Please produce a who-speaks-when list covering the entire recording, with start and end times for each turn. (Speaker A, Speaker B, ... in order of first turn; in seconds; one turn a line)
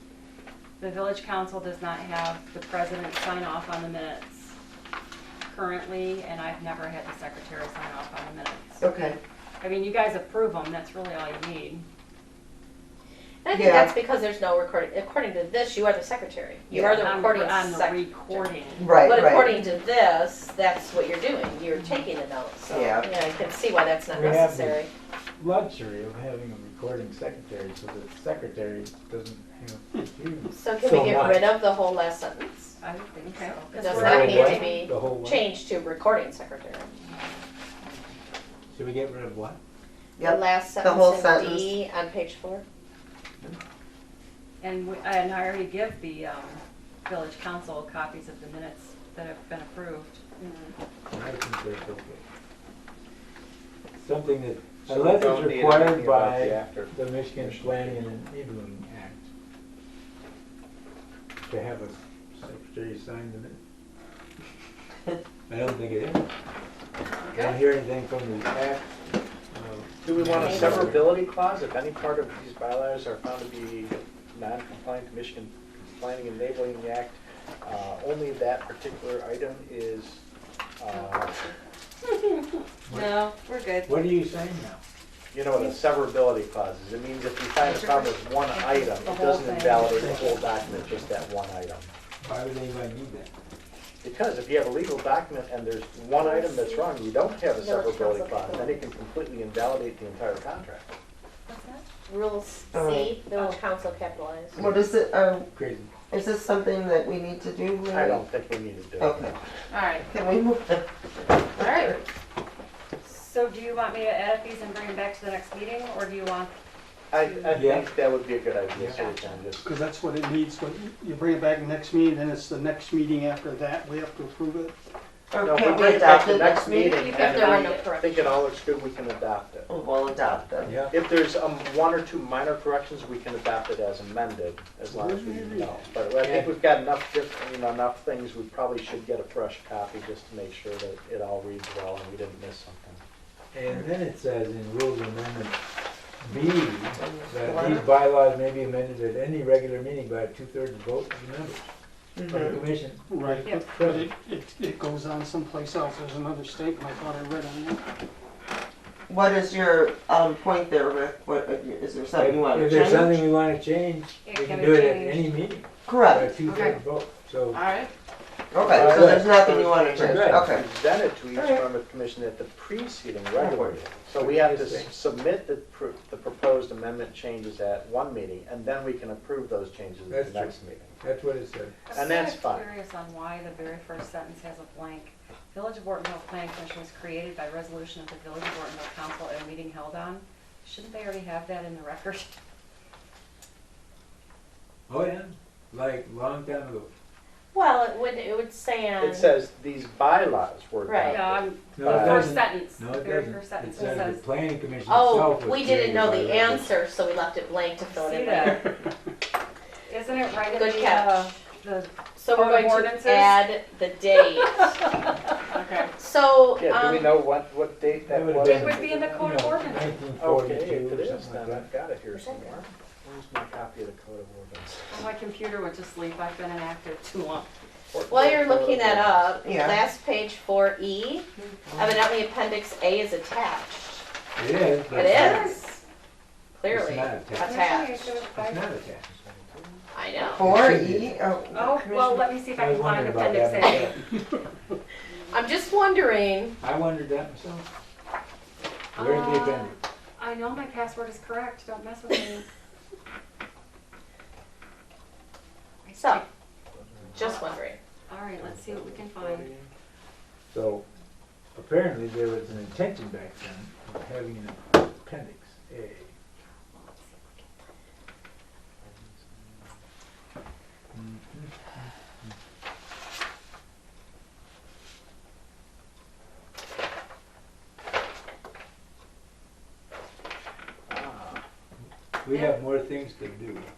Speaker A: 0.8-4.5
Speaker A: 5.5-8.8
Speaker B: 8.8-9.2
Speaker A: 9.6-11.8
Speaker C: 13.4-24.9
Speaker B: 13.5-13.9
Speaker B: 16.7-17.1
Speaker A: 16.7-19.8
Speaker B: 18.8-19.5
Speaker A: 21.7-22.0
Speaker B: 22.7-23.1
Speaker D: 24.1-24.9
Speaker D: 25.4-31.6
Speaker C: 30.5-32.8
Speaker A: 32.8-34.9
Speaker C: 33.4-36.9
Speaker D: 33.9-35.5
Speaker D: 38.7-39.6
Speaker B: 40.2-41.7
Speaker C: 40.2-42.6
Speaker A: 44.6-50.2
Speaker C: 50.4-50.7
Speaker D: 51.1-52.2
Speaker D: 54.0-59.2
Speaker E: 54.9-58.0
Speaker D: 61.4-63.6
Speaker D: 65.5-66.2
Speaker A: 67.2-67.6
Speaker D: 67.3-68.9
Speaker D: 69.5-71.1
Speaker E: 70.0-80.2
Speaker C: 70.3-71.0
Speaker E: 80.8-81.4
Speaker D: 82.9-83.2
Speaker C: 83.3-83.8
Speaker D: 83.8-84.8
Speaker E: 85.3-91.9
Speaker A: 87.6-90.4
Speaker D: 92.2-93.3
Speaker E: 94.0-100.9
Speaker C: 96.2-96.9
Speaker C: 97.6-98.9
Speaker A: 101.5-101.8
Speaker C: 102.1-104.6
Speaker B: 102.7-103.1
Speaker B: 104.5-105.5
Speaker D: 105.5-105.9
Speaker B: 106.1-108.2
Speaker E: 107.9-109.3
Speaker B: 109.0-109.3
Speaker C: 109.7-110.0
Speaker B: 110.0-110.9
Speaker C: 111.5-112.0
Speaker A: 113.0-116.5
Speaker E: 117.1-119.7
Speaker A: 117.1-117.7
Speaker D: 117.5-117.9
Speaker A: 118.9-119.4
Speaker F: 119.6-124.7
Speaker B: 125.3-127.0
Speaker E: 125.4-129.7
Speaker A: 126.9-127.9
Speaker C: 127.0-128.4
Speaker B: 129.7-130.8
Speaker D: 130.7-130.9
Speaker E: 130.9-143.0
Speaker F: 135.3-135.6
Speaker D: 136.2-136.5
Speaker D: 143.5-145.6
Speaker D: 146.2-151.7
Speaker B: 146.9-147.9
Speaker B: 152.2-152.6
Speaker D: 152.3-154.1
Speaker F: 153.1-157.8
Speaker B: 159.1-163.3
Speaker D: 162.2-167.6
Speaker A: 164.2-165.4
Speaker B: 165.8-166.3
Speaker A: 166.4-166.8
Speaker B: 168.5-170.6
Speaker E: 168.6-180.9
Speaker D: 168.7-169.3
Speaker D: 169.9-170.6
Speaker B: 171.3-171.6
Speaker B: 173.3-173.8
Speaker D: 174.2-174.9
Speaker D: 180.1-182.1
Speaker A: 181.9-192.3
Speaker E: 181.9-182.7
Speaker D: 194.9-196.9
Speaker C: 197.5-199.3
Speaker E: 199.0-202.4
Speaker C: 200.8-201.2
Speaker A: 201.0-204.2
Speaker D: 201.8-206.7
Speaker C: 204.9-208.6
Speaker A: 207.8-208.7
Speaker A: 209.9-213.5
Speaker C: 210.5-211.3
Speaker C: 212.2-214.7
Speaker A: 215.5-215.9
Speaker C: 216.0-217.2
Speaker E: 216.6-219.3
Speaker D: 218.1-221.7
Speaker A: 218.4-219.9
Speaker E: 220.2-225.0
Speaker C: 222.1-222.6
Speaker A: 224.9-227.5
Speaker E: 227.9-229.5
Speaker C: 228.1-234.0
Speaker B: 229.4-229.8
Speaker D: 234.3-235.6
Speaker C: 234.9-235.7
Speaker A: 234.9-235.8
Speaker C: 236.5-238.2
Speaker D: 236.7-237.8
Speaker A: 237.4-238.6
Speaker D: 238.3-239.1
Speaker E: 239.1-239.8
Speaker C: 239.9-240.5
Speaker D: 240.3-241.1
Speaker B: 240.4-242.2
Speaker A: 241.5-244.0
Speaker D: 242.5-244.0
Speaker C: 245.3-246.6
Speaker D: 246.6-247.6
Speaker A: 248.9-252.4
Speaker D: 248.9-249.7
Speaker A: 255.8-256.2
Speaker C: 255.9-256.2
Speaker C: 257.1-257.8
Speaker A: 257.2-257.5
Speaker A: 258.1-259.5
Speaker E: 258.4-259.7
Speaker D: 260.5-260.8
Speaker D: 261.5-266.1
Speaker A: 266.7-267.4
Speaker E: 268.8-269.7
Speaker D: 270.9-272.3
Speaker E: 280.9-281.4
Speaker D: 282.2-283.7